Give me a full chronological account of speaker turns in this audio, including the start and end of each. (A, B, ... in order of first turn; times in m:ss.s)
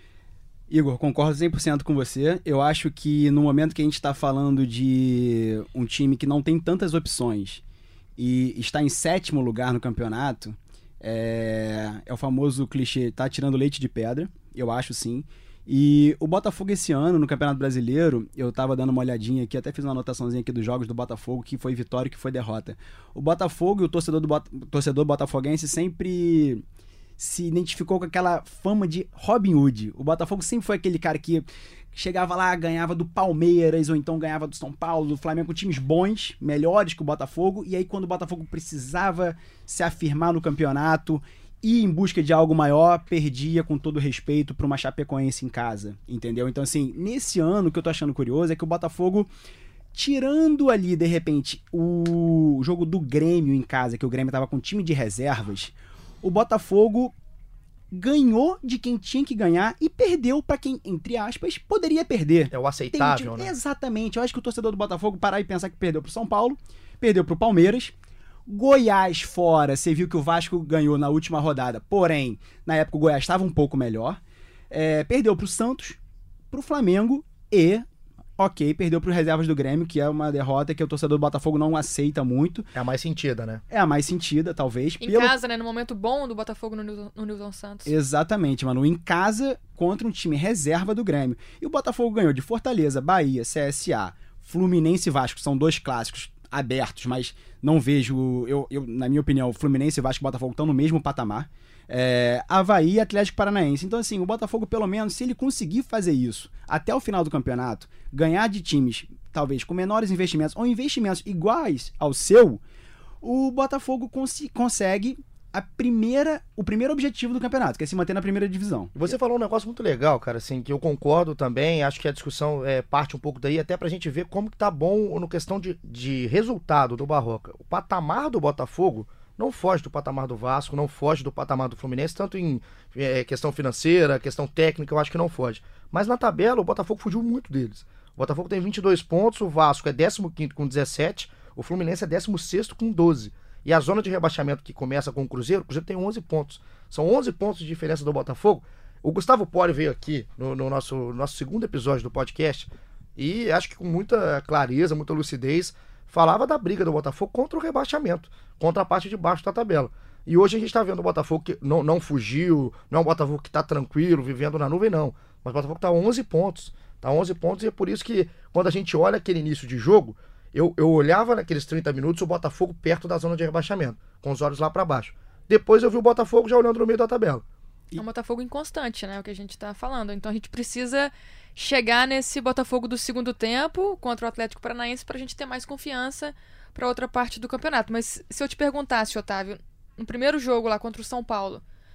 0:00.7-0:07.6 A
0:08.2-0:26.6 A
0:27.2-0:49.3 A
0:49.9-0:57.1 A
0:57.9-1:07.9 A
1:02.5-1:03.5 B
1:08.5-1:16.0 A
1:16.5-1:17.8 A
1:18.4-1:22.7 A
1:22.7-1:23.6 B
1:23.7-1:25.4 A
1:25.0-1:27.9 C
1:27.8-1:52.6 A
1:53.2-1:59.2 A
1:58.9-2:57.4 B
2:58.0-3:11.6 C